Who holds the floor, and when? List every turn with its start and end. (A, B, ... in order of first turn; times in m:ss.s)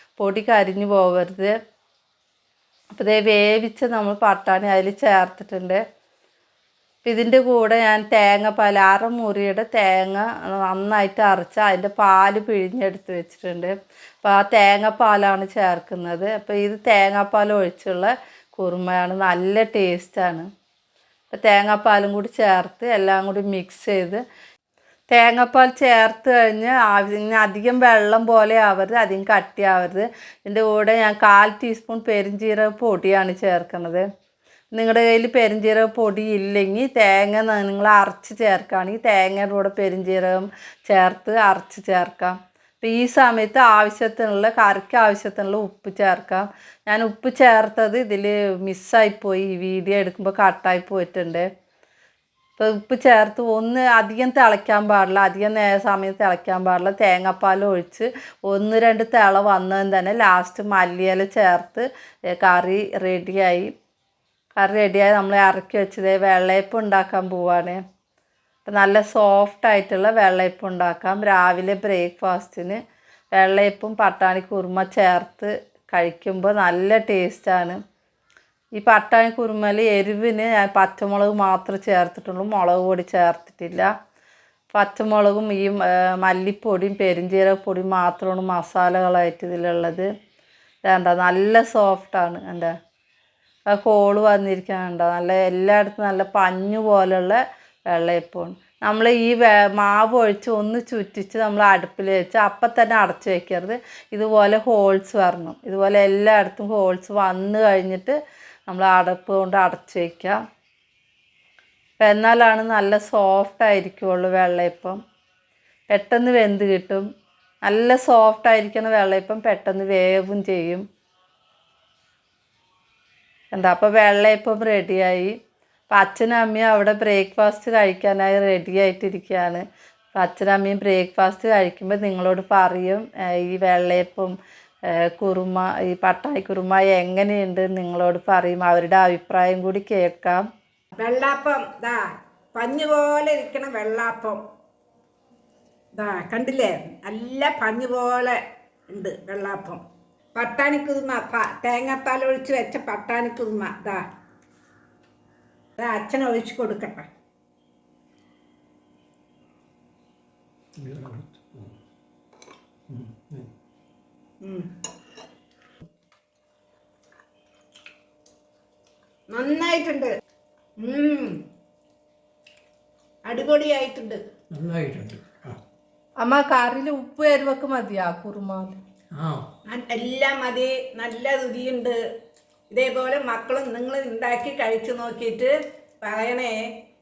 0:00.2-0:01.5 A
0:02.9-0:05.8 A
0:07.0-0:20.5 A
0:21.3-0:24.2 A
0:25.1-0:34.0 A
0:34.7-0:51.5 A
0:52.6-1:03.7 A
1:04.6-1:07.8 A
1:08.6-1:12.8 A
1:13.4-1:17.8 A
1:18.8-1:23.9 A
1:24.7-1:30.1 A
1:30.9-1:32.7 A
1:33.7-1:48.2 A
1:48.7-1:50.4 A
1:52.0-1:55.0 A
1:55.9-1:57.0 A
1:57.6-2:00.8 A
2:03.5-2:05.4 A
2:05.9-2:09.6 A
2:10.2-2:14.3 A
2:15.2-2:20.4 A
2:21.0-2:22.0 B
2:22.6-2:24.4 B
2:26.0-2:28.4 B
2:28.9-2:29.8 B
2:30.4-2:34.1 B
2:35.8-2:37.1 B
2:40.8-2:41.8 C
2:42.9-2:43.5 C
2:44.4-2:44.7 B
2:49.3-2:50.1 B
2:50.8-2:51.3 B
2:53.3-2:54.2 B
2:54.5-2:55.6 C
2:56.2-2:58.8 A
2:59.2-2:59.4 C
2:59.7-3:02.0 B
3:02.7-3:06.6 B